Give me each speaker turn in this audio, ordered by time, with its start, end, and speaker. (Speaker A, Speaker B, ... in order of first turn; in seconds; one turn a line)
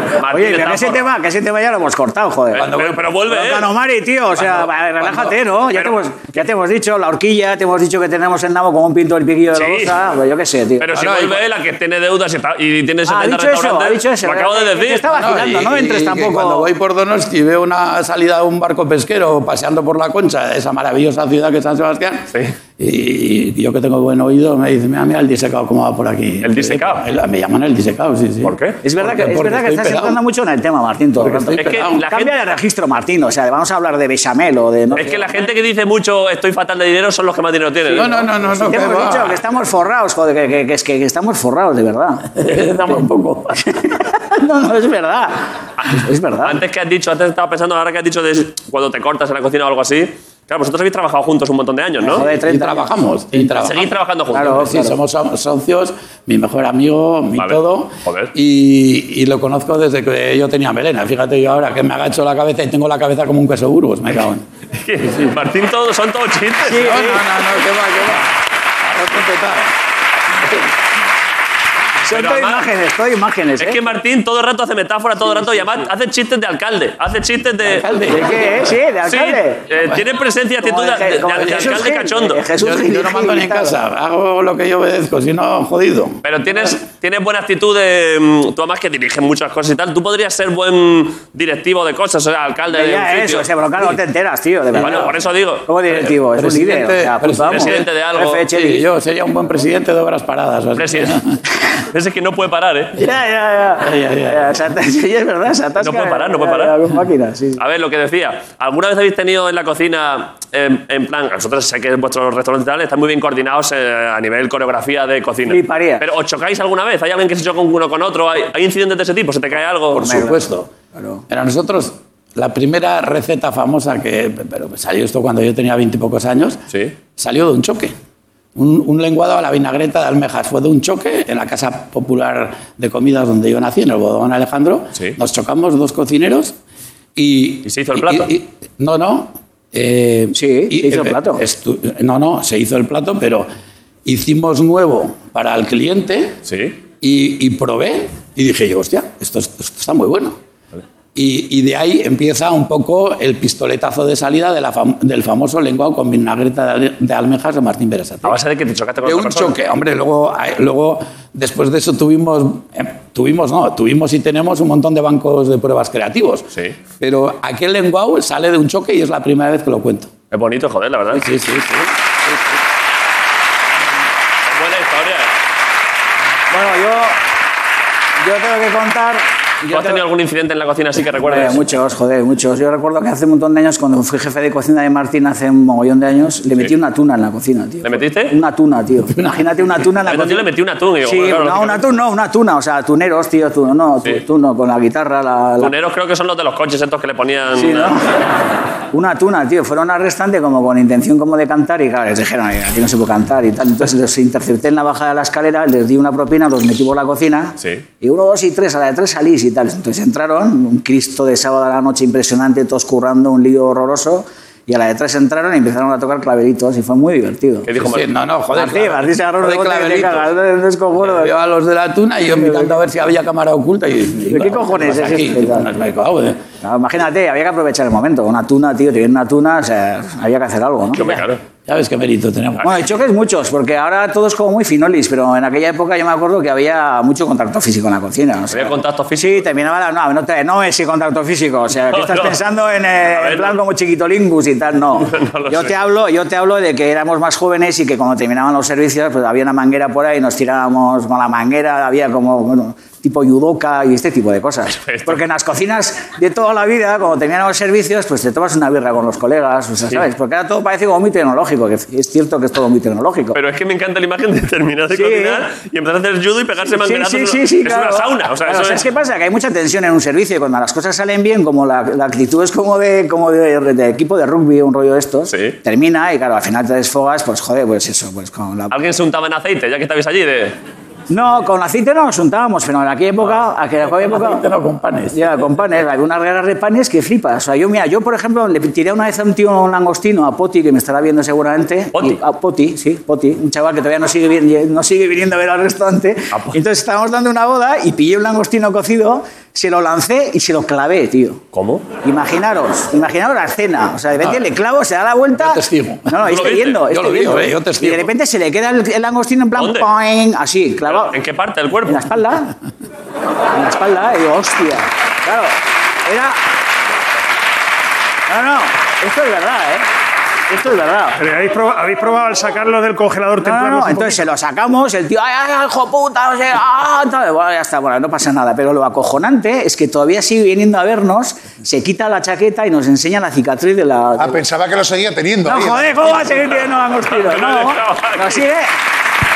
Speaker A: 0.2-1.1
Speaker B: 0.3-2.7
Speaker A: 2.5-3.7
Speaker C: 2.6-3.2
Speaker B: 3.3-11.0
Speaker C: 4.4-5.3
Speaker A: 9.5-9.9
Speaker A: 10.8-15.1
Speaker C: 10.9-11.4
Speaker B: 13.1-16.7
Speaker C: 15.1-22.3
Speaker C: 22.8-30.2
Speaker A: 26.4-27.0
Speaker A: 28.4-28.8
Speaker B: 28.8-35.3
Speaker C: 31.2-32.0
Speaker A: 31.6-32.4
Speaker A: 34.9-38.2
Speaker B: 37.9-43.0
Speaker C: 37.9-39.4
Speaker C: 42.4-43.6
Speaker B: 43.6-46.6
Speaker A: 45.8-52.3
Speaker B: 52.0-53.5
Speaker C: 52.2-64.4
Speaker A: 53.5-54.7
Speaker B: 54.3-55.0
Speaker A: 57.4-58.3
Speaker A: 64.8-66.9
Speaker C: 65.0-65.3
Speaker B: 66.6-67.3
Speaker C: 66.7-69.7
Speaker B: 72.0-73.8
Speaker A: 72.1-72.7
Speaker A: 73.6-77.9
Speaker B: 75.2-75.8
Speaker C: 77.6-78.8
Speaker B: 78.1-79.7
Speaker A: 79.0-82.5
Speaker B: 80.6-83.8
Speaker C: 81.3-81.8
Speaker C: 82.5-86.8
Speaker A: 86.2-93.5
Speaker B: 92.7-98.8
Speaker A: 94.7-95.7
Speaker C: 95.9-97.9
Speaker A: 97.5-98.5
Speaker C: 98.5-101.4
Speaker A: 100.8-101.2
Speaker A: 101.9-103.0
Speaker B: 103.0-107.6
Speaker C: 103.8-104.5
Speaker A: 105.8-106.8
Speaker A: 107.6-120.1
Speaker B: 115.5-116.0
Speaker C: 120.0-120.7
Speaker B: 120.0-120.4
Speaker B: 121.0-121.2
Speaker C: 121.3-126.6
Speaker C: 127.2-127.9
Speaker C: 128.6-136.6
Speaker C: 137.2-143.5
Speaker A: 137.7-138.3
Speaker B: 140.3-141.4
Speaker C: 144.1-146.4
Speaker A: 146.5-146.8
Speaker C: 147.0-150.4
Speaker C: 151.2-158.4
Speaker A: 158.2-159.6
Speaker C: 159.0-166.5
Speaker C: 167.0-170.1
Speaker A: 170.3-171.2
Speaker C: 171.1-172.6
Speaker A: 174.5-175.3
Speaker B: 176.5-177.2
Speaker B: 178.2-180.1
Speaker A: 179.7-181.7
Speaker B: 181.2-190.4
Speaker A: 187.8-188.4
Speaker C: 189.1-189.4
Speaker A: 190.1-191.9
Speaker B: 191.0-195.7
Speaker A: 195.6-198.0
Speaker B: 197.5-198.0
Speaker B: 198.9-217.7
Speaker A: 217.7-218.1
Speaker C: 217.7-220.3
Speaker B: 218.5-221.3
Speaker C: 221.1-226.4
Speaker B: 222.3-222.8
Speaker B: 224.3-225.7
Speaker B: 226.6-231.2
Speaker A: 230.9-231.4
Speaker C: 231.7-232.9
Speaker B: 232.6-263.4
Speaker A: 238.5-239.5
Speaker A: 241.9-242.4
Speaker A: 243.1-243.6
Speaker A: 245.1-245.8
Speaker A: 254.8-255.2
Speaker A: 263.3-268.8
Speaker B: 264.9-265.5
Speaker B: 266.6-278.7
Speaker A: 275.3-275.6
Speaker A: 278.7-280.6
Speaker B: 281.1-284.4
Speaker C: 283.9-285.3
Speaker B: 285.1-301.4
Speaker A: 291.9-292.2
Speaker A: 296.3-296.6
Speaker A: 301.5-301.9
Speaker B: 302.0-311.1
Speaker C: 304.2-304.5
Speaker C: 305.4-306.2
Speaker A: 306.2-306.8
Speaker C: 306.8-308.1
Speaker A: 309.6-309.9
Speaker A: 310.9-312.1
Speaker B: 311.9-312.5
Speaker B: 313.5-315.6
Speaker B: 316.1-316.4
Speaker B: 318.3-319.9
Speaker B: 320.5-321.2
Speaker D: 321.2-324.3
Speaker B: 323.4-334.4
Speaker E: 334.2-336.2
Speaker B: 335.5-338.7
Speaker A: 337.1-338.5